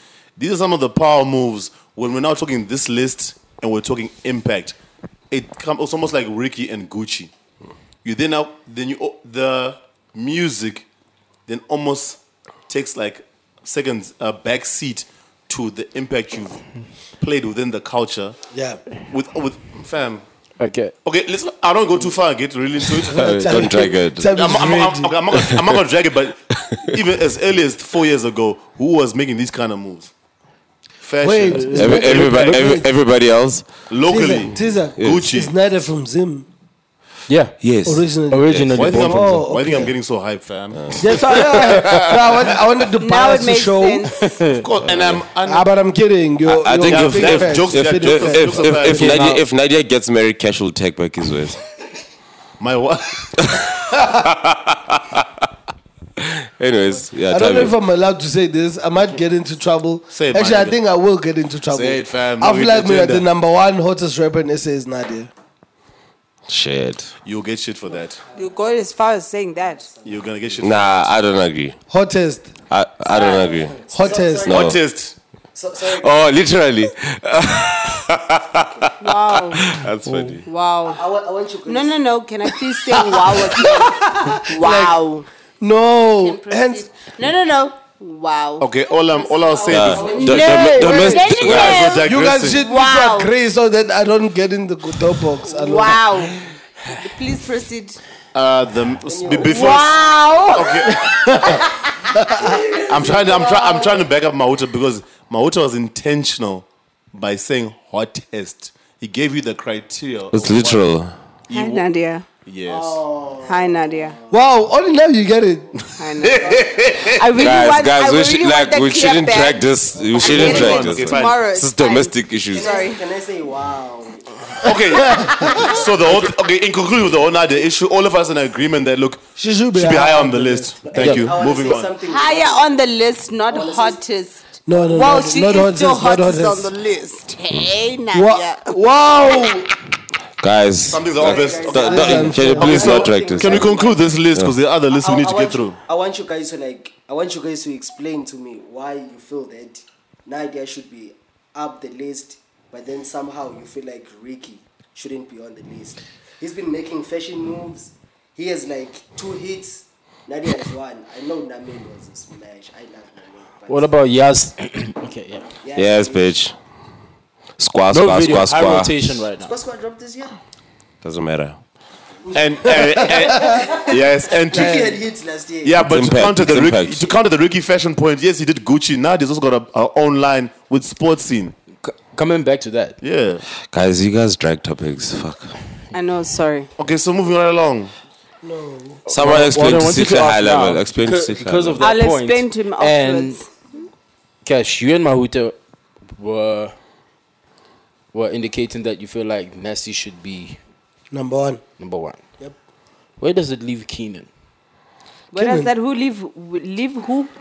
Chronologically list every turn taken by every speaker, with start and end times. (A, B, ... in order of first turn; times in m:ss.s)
0:00.4-0:04.8 A
0:05.3-0:07.3 A
0:08.0-0:10.8 A
0:11.5-0:16.6 A
0:17.2-0:18.4 A
0:18.5-0:18.8 B
0:19.1-0:20.2 A
0:20.6-0:20.9 C
0:21.0-0:23.2 A
0:23.1-0:25.5 B
0:23.1-0:24.3 D
0:24.3-0:30.1 A
0:31.0-0:32.7 A
0:31.2-0:32.9 B
0:31.7-0:33.7 D
0:33.9-0:35.5 A
0:34.0-0:36.5 B
0:35.0-0:35.2 D
0:37.3-0:37.6 C
0:37.6-0:38.9 D
0:37.8-0:39.9 B
0:38.3-0:39.8 C
0:38.7-0:42.1 A
0:40.7-0:42.0 D
0:41.0-0:44.1 B
0:43.0-0:44.2 E
0:44.2-0:44.6 C
0:44.5-0:45.7 A
0:44.8-0:45.2 D
0:45.4-0:49.4 B
0:46.4-0:51.6 D
0:46.8-0:49.3 A
0:48.9-0:49.4 C
0:52.6-0:53.7 A
0:53.4-0:55.2 D
0:56.2-0:57.7 D
0:57.3-1:05.3 B
1:00.1-1:00.7 A
1:01.7-1:03.2 A
1:06.5-1:07.1 D
1:07.2-1:08.2 A
1:08.3-1:09.9 E
1:10.0-1:11.1 A
1:10.6-1:11.8 D
1:11.9-1:12.5 B
1:12.7-1:13.8 D
1:13.1-1:14.8 F
1:13.9-1:14.6 B
1:14.4-1:15.2 A
1:14.4-1:14.8 D
1:15.5-1:16.1 F
1:15.8-1:20.4 D
1:18.6-1:18.9 F
1:19.0-1:19.6 E
1:20.1-1:20.4 C
1:20.4-1:21.0 E
1:20.9-1:22.0 F
1:21.6-1:25.2 E
1:24.5-1:26.9 B
1:26.2-1:28.7 E
1:28.6-1:30.2 A
1:29.5-1:31.1 F
1:29.7-1:31.9 D
1:29.8-1:32.0 E
1:30.8-1:32.6 A
1:31.7-1:36.1 B
1:32.6-1:33.3 E
1:35.4-1:36.4 E
1:37.0-1:38.0 E
1:38.3-1:40.0 A
1:39.0-1:39.9 F
1:39.4-1:40.9 E
1:40.5-1:41.1 A
1:42.5-1:43.7 F
1:42.9-1:50.9 A
1:43.2-1:43.7 E
1:50.3-1:51.1 D
1:51.5-1:51.8 A
1:51.5-1:52.2 E
1:52.5-1:53.0 A
1:52.6-1:54.4 F
1:53.4-1:54.1 E
1:54.3-1:55.7 B
1:55.7-1:57.2 A
1:56.0-1:56.6 E
1:56.3-1:56.7 F
1:57.1-2:03.0 E
1:57.4-2:02.7 D
2:00.2-2:01.4 A
2:02.5-2:04.2 F
2:04.6-2:11.9 A
2:04.9-2:05.5 B
2:05.4-2:05.7 F
2:09.4-2:11.2 B
2:10.8-2:12.7 F
2:12.0-2:18.7 E
2:13.5-2:14.0 F
2:14.6-2:16.7 B
2:18.1-2:19.7 B
2:20.4-2:23.7 D
2:20.8-2:25.8 A
2:21.2-2:24.0 F
2:21.7-2:23.0 B
2:22.8-2:23.7 E
2:24.9-2:43.9 F
2:43.7-2:45.5 C
2:45.6-2:46.3 F
2:45.7-2:46.5 D
2:47.6-2:49.2 D
2:47.9-2:49.5 C
2:49.4-2:50.3 F
2:51.0-2:51.6 D
2:52.3-2:55.0 A
2:52.7-2:53.5 B
2:53.0-2:53.9 F
2:54.5-2:55.8 F
2:54.5-2:54.8 B
2:55.6-3:01.6 A
2:55.8-2:57.1 D
3:01.8-3:03.0 C
3:03.0-3:03.4 A
3:03.7-3:05.5 D
3:05.9-3:06.7 E
3:06.8-3:07.9 A
3:08.4-3:09.0 B
3:09.0-3:13.4 C
3:09.1-3:11.9 D
3:11.8-3:13.4 E
3:14.4-3:15.5 C
3:16.1-3:16.8 C
3:18.1-3:20.6 C
3:21.1-3:21.6 B
3:21.8-3:22.2 C
3:23.2-3:24.3 C
3:25.3-3:27.3 E
3:25.3-3:25.7 B